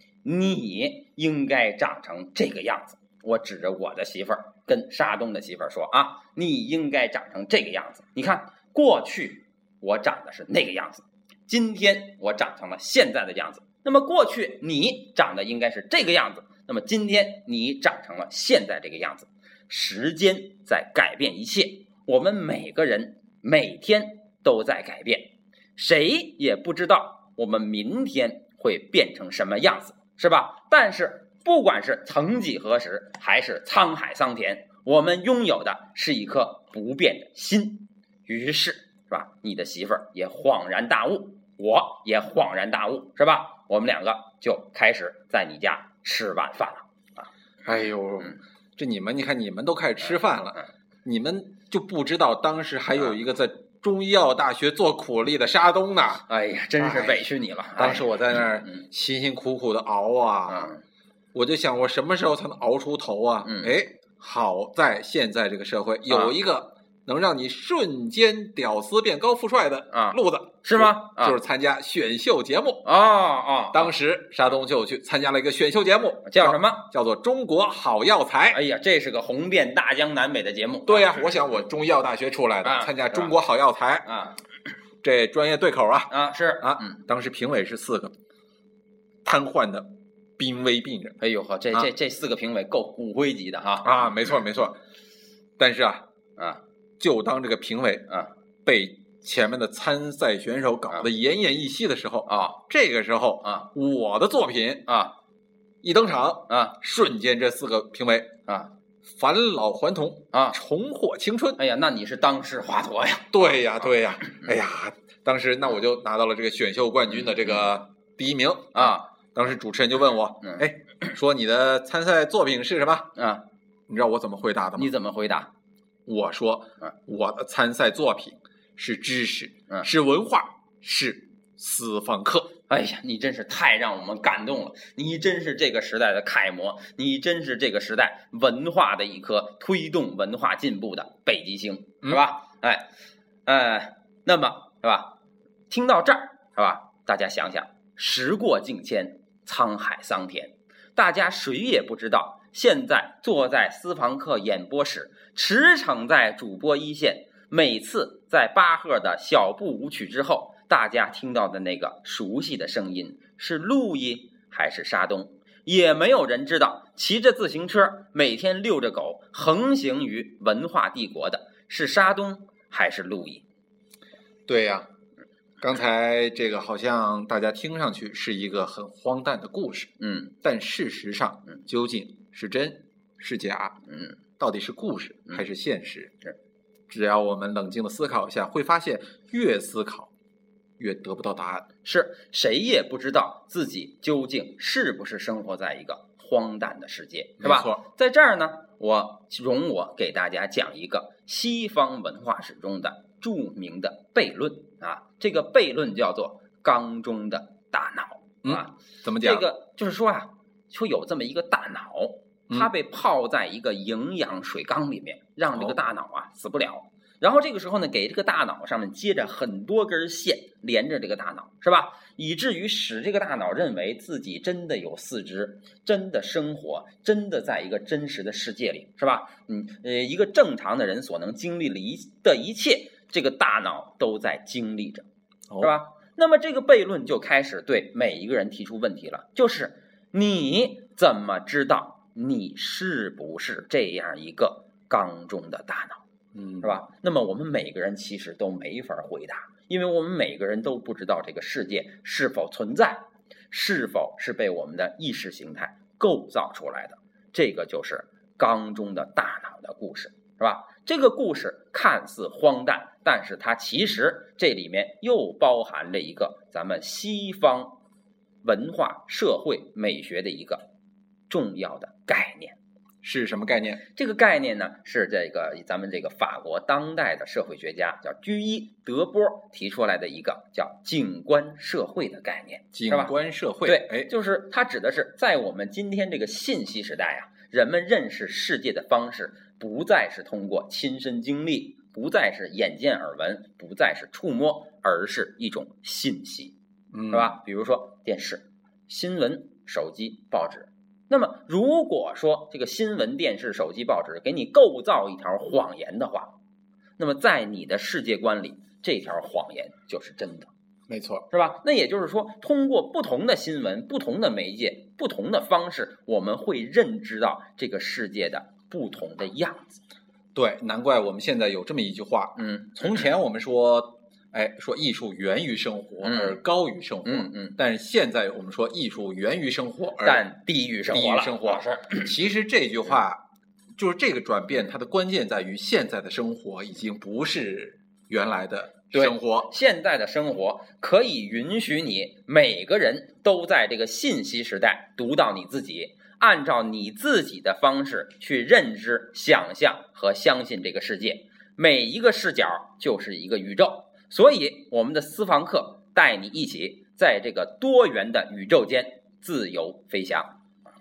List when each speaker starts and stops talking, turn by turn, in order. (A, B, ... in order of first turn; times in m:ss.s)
0:00.2-0:47.3 A
0:47.6-0:56.2 B
0:56.3-0:58.8 A
0:56.8-0:57.2 B
0:57.8-1:00.7 B
1:00.5-1:00.8 A
1:01.3-1:12.8 B
1:03.4-1:03.7 A
1:06.1-1:06.3 A
1:09.9-1:11.4 A
1:12.8-1:13.9 A
1:13.7-1:18.6 B
1:16.3-1:16.8 A
1:18.5-1:21.3 A
1:20.9-1:24.1 B
1:22.6-1:23.3 A
1:24.0-1:24.4 A
1:25.0-1:28.1 B
1:26.1-1:27.0 A
1:29.2-1:31.2 B
1:31.2-1:34.1 A
1:33.8-1:34.8 B
1:35.6-1:36.0 B
1:37.0-1:38.1 B
1:38.6-1:44.9 B
1:42.3-1:42.6 A
1:43.4-1:43.7 A
1:44.9-1:45.1 A
1:45.8-1:48.3 B
1:46.5-1:46.8 A
1:48.5-1:48.7 A
1:49.1-1:51.6 B
1:50.3-1:50.6 A
1:51.6-1:53.5 A
1:53.3-2:03.1 B
1:57.1-1:57.7 A
1:58.7-1:59.0 A
2:00.4-2:00.7 A
2:03.2-2:03.4 A
2:03.9-2:04.9 B
2:04.8-2:05.5 A
2:06.0-2:12.5 B
2:12.7-2:22.9 A
2:23.4-2:25.1 A
2:25.7-2:53.4 A
2:54.5-2:54.9 B
2:55.6-2:59.9 B
3:00.0-3:00.3 A
3:00.4-3:03.8 B
3:03.9-3:04.2 A
3:04.4-3:06.1 B
3:06.9-3:10.1 B
3:10.8-3:11.7 B
3:11.8-3:55.0 A
3:17.4-3:17.8 B
3:28.4-3:29.4 B
3:55.6-4:06.0 A
4:06.3-4:06.7 B
4:06.6-4:27.8 A
4:28.4-4:30.6 A
4:31.3-4:32.6 A
4:33.0-4:33.8 B
4:33.9-4:43.1 A
4:42.7-4:44.1 B
4:43.6-4:56.5 A
4:56.9-4:57.3 B
4:57.1-5:06.3 A
5:07.0-5:10.5 A
5:10.9-5:11.2 B
5:11.3-5:19.8 A
5:20.3-5:30.2 B
5:22.4-5:22.9 A
5:26.0-5:26.4 A
5:27.0-5:27.6 A
5:30.0-5:32.1 A
5:30.9-5:33.2 B
5:33.8-5:39.5 B
5:38.9-6:00.3 A